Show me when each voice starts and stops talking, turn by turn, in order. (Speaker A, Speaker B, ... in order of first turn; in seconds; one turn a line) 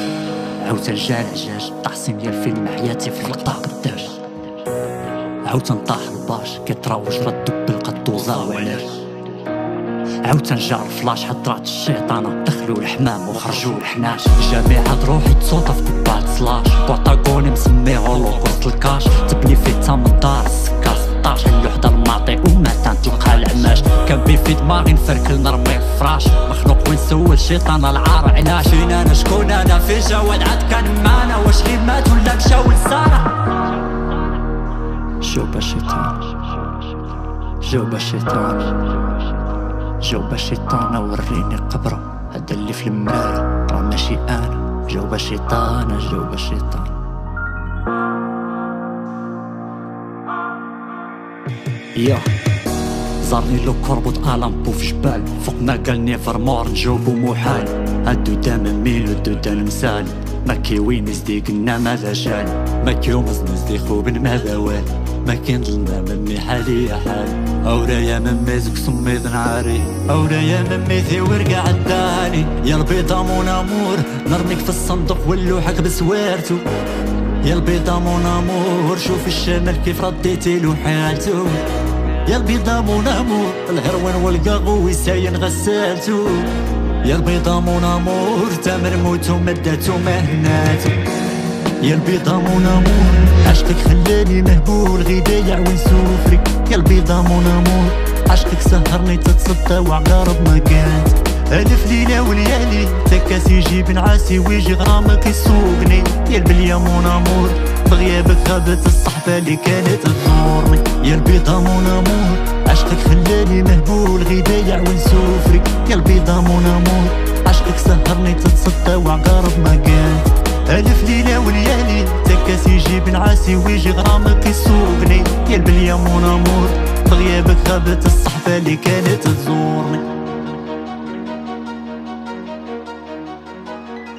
Speaker A: 0.6-4.2
Speaker A: 5.4-9.0
Speaker A: 10.2-33.4
Speaker A: 35.2-36.3
Speaker A: 37.6-38.9
Speaker A: 40.0-46.9
Speaker A: 52.0-52.3
Speaker A: 53.2-76.7
Speaker A: 77.4-81.6
Speaker A: 82.2-86.5
Speaker A: 87.0-91.1
Speaker A: 91.8-130.0